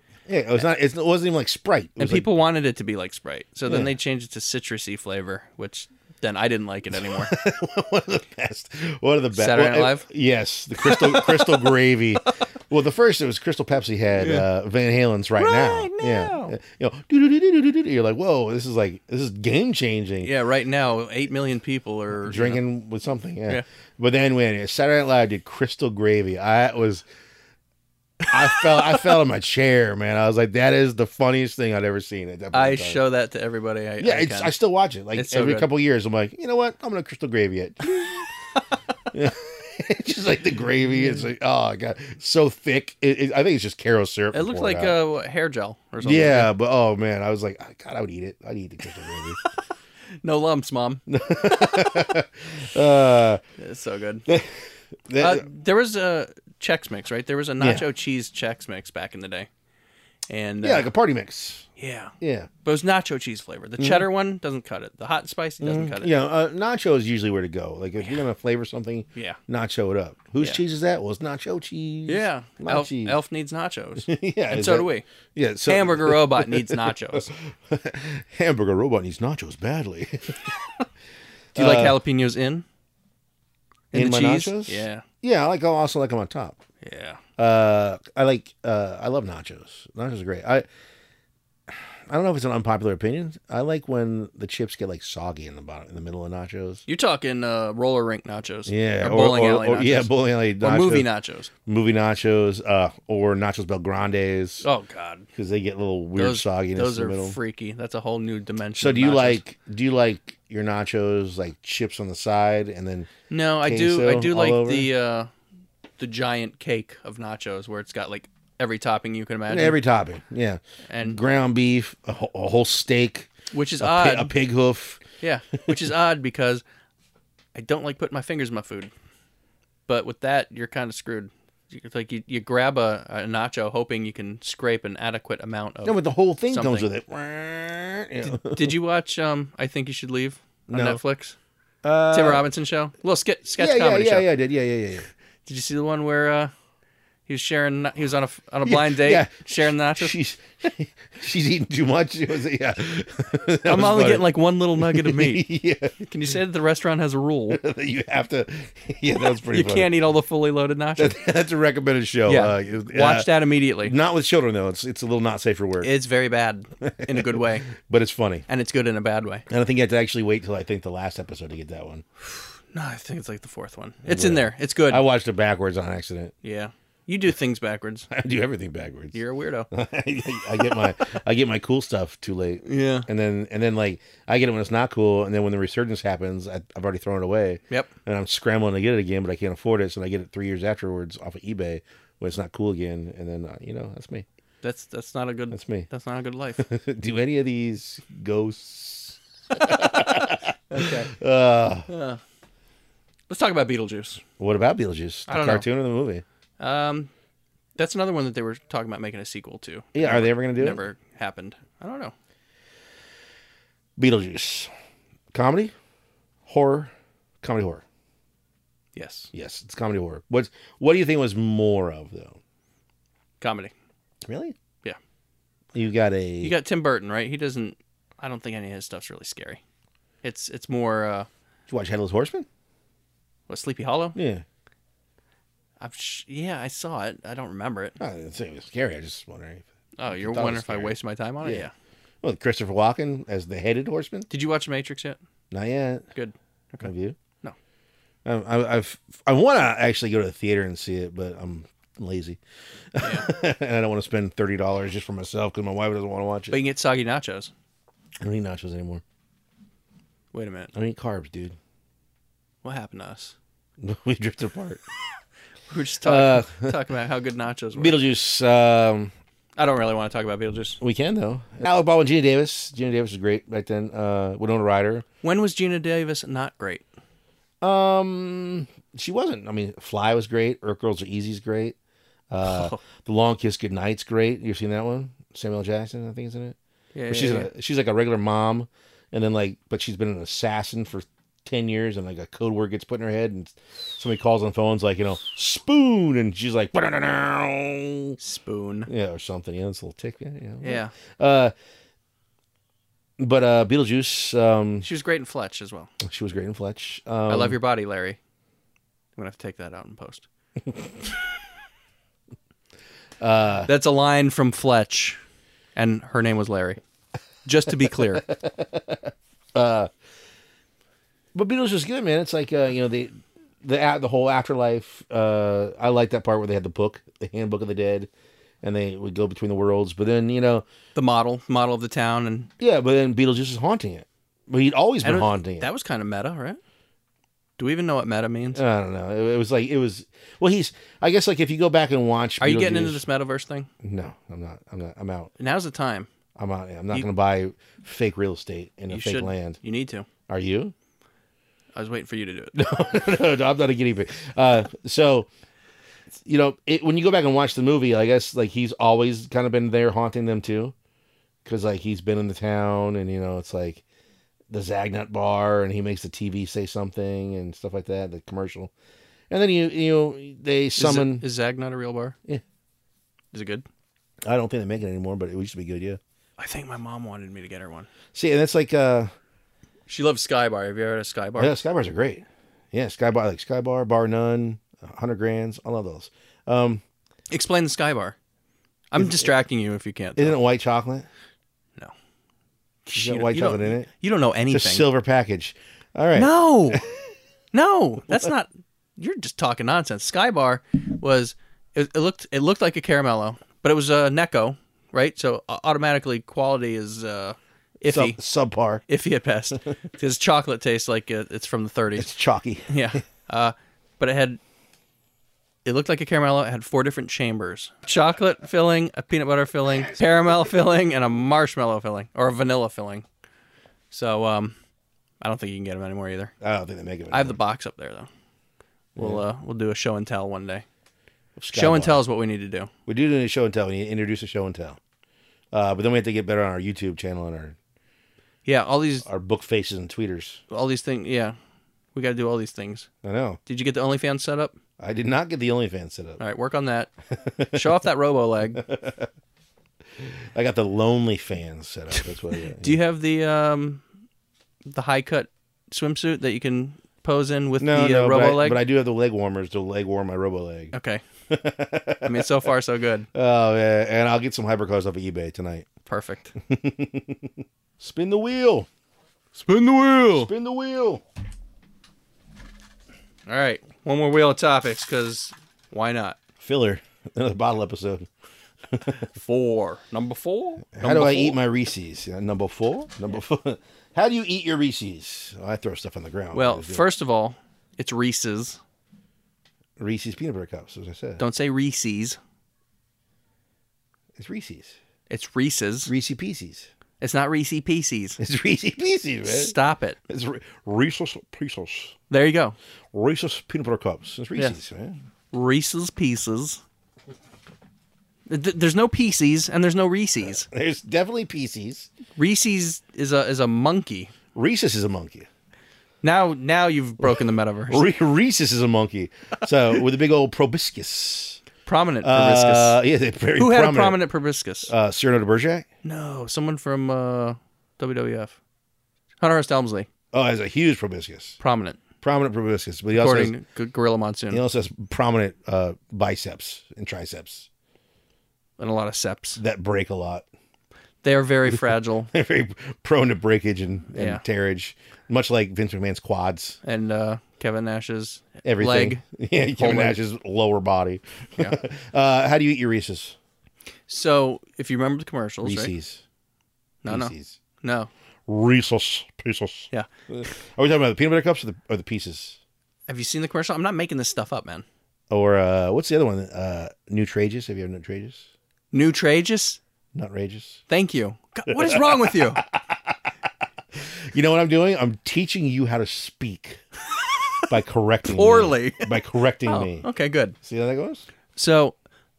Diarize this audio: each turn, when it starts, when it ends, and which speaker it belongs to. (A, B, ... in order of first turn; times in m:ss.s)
0:00.3-0:02.3 A
0:02.0-0:07.3 B
0:06.9-0:20.3 A
0:09.3-0:10.1 B
0:10.8-0:11.7 B
0:14.2-0:14.5 B
0:15.4-0:16.6 B
0:20.2-0:22.6 B
0:22.2-0:27.0 A
0:28.3-0:33.0 A
0:32.5-0:34.5 B
0:34.0-0:38.3 A
0:35.1-0:35.7 B
0:39.1-0:45.0 A
0:44.3-0:46.5 B
0:46.0-0:49.4 A
0:50.2-0:52.1 B
0:51.1-0:53.4 A
0:53.6-0:54.3 B
0:54.3-0:54.6 A
0:55.1-0:55.4 A
0:55.2-0:59.5 B
0:57.6-0:57.8 A
1:00.3-1:00.9 B
1:00.6-1:01.7 A
1:01.8-1:06.1 B
1:02.2-1:02.5 A
1:03.8-1:04.1 A
1:05.6-1:13.2 A
1:12.1-1:15.0 B
1:14.0-1:20.4 A
1:15.6-1:17.3 B
1:21.5-1:22.0 A
1:21.6-1:22.6 B
1:23.9-1:25.0 B
1:23.9-1:26.6 A
1:26.8-1:27.2 B
1:27.4-1:30.6 A
1:31.7-1:36.8 A
1:36.9-1:41.5 B
1:38.7-1:41.1 A
1:41.6-1:44.6 A
1:44.6-1:45.2 B
1:45.4-1:47.4 A
1:46.2-1:49.4 B
1:48.8-1:53.1 A
1:53.3-1:55.3 B
1:53.6-1:54.9 A
1:56.0-1:59.8 B
1:59.5-2:05.0 A
2:00.9-2:01.2 B
2:03.5-2:04.3 B
2:05.2-2:06.6 B
2:07.5-2:08.9 B
2:09.9-2:16.9 B
2:15.8-2:18.7 A
2:18.2-2:21.4 B
2:20.7-2:21.0 A
2:21.8-2:22.5 A
2:22.1-2:24.3 B
2:23.6-2:25.1 A
2:25.4-2:26.5 B
2:27.3-2:30.2 B
2:28.6-2:29.3 A
2:30.0-2:36.1 A
2:33.6-2:35.4 B
2:36.0-2:37.6 B
2:37.5-2:39.9 A
2:39.4-2:41.2 B
2:41.0-2:43.3 A
2:42.3-2:43.9 B
2:43.8-2:45.9 A
2:45.8-2:47.7 B
2:46.8-2:48.4 A
2:48.5-2:49.4 B
2:49.5-2:52.0 A
2:52.3-2:55.0 B
2:54.0-2:56.3 A
2:56.4-2:58.1 B
2:58.1-2:59.2 A
2:59.1-2:59.7 B
2:59.7-3:14.2 A
3:02.6-3:03.1 B
3:14.6-3:16.6 B
3:15.5-3:15.9 A
3:16.6-3:21.9 A
3:20.7-3:21.1 B
3:21.9-3:22.2 B
3:23.3-3:24.2 B
3:24.4-3:26.2 A
3:25.3-3:25.7 B
3:26.6-3:27.1 B
3:27.8-3:32.1 B
3:29.9-3:30.8 A
3:34.0-3:34.7 A
3:35.3-3:35.7 A
3:36.4-3:37.8 A
3:38.9-3:39.3 B
3:39.3-3:42.4 A
3:43.4-3:43.7 B
3:44.2-3:44.6 A
3:45.7-3:46.6 A
3:46.4-3:49.6 B
3:50.2-3:51.3 B
3:51.7-3:52.5 A
3:53.5-3:54.2 B
3:54.1-3:54.4 A
3:55.8-3:58.0 B
3:58.0-4:01.7 A
4:00.0-4:01.7 B
4:02.2-4:04.3 A
4:04.3-4:05.2 B
4:05.5-4:06.0 A
4:06.1-4:06.9 B
4:06.8-4:07.2 A
4:08.2-4:12.4 A
4:12.9-4:16.6 A
4:13.0-4:13.3 B
4:16.5-4:17.5 B
4:18.2-4:19.0 A
4:20.3-4:20.7 B
4:20.7-4:21.6 A
4:22.6-4:23.3 B
4:23.8-4:24.8 A
4:25.7-4:28.0 B
4:26.0-4:26.7 A
4:27.7-4:29.1 A
4:29.6-4:30.8 B
4:30.8-4:35.0 A
4:35.2-4:36.8 B
4:37.6-4:41.8 A
4:42.3-4:46.6 A
4:42.4-4:42.8 B
4:46.9-4:47.5 B
4:47.1-4:58.2 A
4:58.2-4:58.9 B
4:58.9-5:01.5 A
5:00.6-5:00.9 B
5:03.2-5:04.9 A
5:04.8-5:05.9 B
5:06.0-5:07.6 A
5:07.3-5:08.2 B
5:09.2-5:10.2 B
5:13.2-5:13.7 A
5:13.6-5:15.2 B
5:15.7-5:16.8 B
5:17.4-5:18.2 B
5:17.8-5:19.9 A
5:21.3-5:28.1 A
5:28.6-5:30.6 A
5:30.9-5:32.5 B
5:32.6-5:35.7 A
5:35.0-5:36.6 B
5:37.6-5:38.6 B
5:38.5-5:43.0 A
5:42.4-5:43.7 B
5:43.8-5:45.3 A
5:45.4-5:46.1 B
5:46.4-5:49.6 A
5:48.9-5:50.1 B
5:50.3-5:50.7 A
5:51.7-5:52.6 B
5:52.5-5:55.3 A
5:56.1-6:00.7 A
6:01.4-6:03.8 A
6:04.5-6:08.7 A
6:09.3-6:11.2 A
6:10.8-6:12.2 B
6:13.3-6:13.6 B
6:14.2-6:16.0 A
6:16.4-6:17.9 B
6:18.1-6:19.1 A
6:19.9-6:21.5 B
6:21.4-6:26.8 A
6:27.3-6:28.2 B
6:28.9-6:30.4 B
6:29.0-6:29.3 A
6:30.2-6:31.1 A
6:32.8-6:34.9 B
6:32.9-6:33.9 A
6:34.5-6:36.9 A
6:36.1-6:36.8 B
6:37.5-6:48.2 B
6:47.8-6:48.8 A
6:48.9-6:52.1 B
6:52.0-6:52.7 A
6:52.7-6:54.4 B
6:55.6-7:03.0 B
7:03.9-7:04.6 B
7:05.2-7:06.3 B
7:06.4-7:07.4 A
7:07.1-7:08.1 B
7:09.0-7:09.2 A
7:09.0-7:10.6 B
7:11.4-7:12.0 A
7:11.5-7:12.7 B
7:12.9-7:14.8 A
7:15.5-7:17.6 A
7:18.4-7:19.0 B
7:19.0-7:20.4 A
7:20.5-7:21.4 B
7:21.9-7:22.9 B
7:23.0-7:23.4 A
7:23.4-7:24.6 B
7:24.8-7:26.2 A
7:26.2-7:26.9 B
7:27.1-7:27.7 A
7:27.5-7:28.6 B
7:28.5-7:29.1 A
7:30.0-7:32.8 A
7:32.6-7:33.8 B
7:34.7-7:38.6 B
7:37.6-7:40.7 A
7:40.7-7:41.0 B
7:41.3-7:42.3 A
7:42.0-7:43.1 B
7:43.1-7:45.7 A
7:45.9-7:46.3 B
7:46.5-7:48.7 A
7:49.4-7:50.3 B
7:50.1-7:51.0 A
7:53.3-7:56.2 B
7:56.4-7:58.1 A
7:58.7-7:59.1 A
7:59.2-8:01.4 B
8:00.7-8:06.8 A
8:06.3-8:08.6 B
8:09.8-8:11.2 A
8:11.2-8:12.2 B
8:14.2-8:14.8 A
8:15.1-8:15.9 B
8:15.9-8:16.7 A
8:17.0-8:18.2 B
8:18.2-8:19.5 A
8:19.2-8:20.0 B
8:20.1-8:22.0 A
8:22.1-8:22.6 B
8:22.9-8:25.0 A
8:25.3-8:26.6 B
8:28.3-8:30.5 B
8:30.2-8:31.9 A
8:32.2-8:34.1 B
8:34.3-8:35.3 A
8:36.0-8:37.8 B
8:37.7-8:41.4 A
8:41.6-8:42.8 B
8:42.0-8:44.0 A
8:43.4-8:44.7 B
8:44.7-8:45.6 A
8:45.8-8:48.4 B
8:49.2-8:49.9 B
8:50.1-8:51.4 A
8:51.4-8:51.8 B
8:52.0-8:53.3 A
8:52.9-8:54.4 B
8:54.3-8:57.5 A
8:58.6-8:59.4 B
8:59.4-9:00.2 A
9:01.0-9:02.1 B
9:02.1-9:06.6 A
9:03.9-9:04.2 B
9:06.6-9:09.0 B
9:08.4-9:13.2 A
9:09.6-9:10.0 B
9:13.9-9:15.7 B
9:15.4-9:16.0 A
9:16.8-9:17.9 B
9:16.8-9:17.4 A
9:18.3-9:22.4 A
9:22.9-9:24.6 B
9:25.1-9:28.3 A
9:28.7-9:29.6 B
9:29.9-9:30.6 A
9:30.7-9:32.4 B
9:31.5-9:33.0 A
9:33.8-9:36.6 A
9:37.5-9:39.9 A
9:38.1-9:38.9 B
9:39.4-9:40.4 B
9:40.4-9:41.0 A
9:41.4-9:41.8 B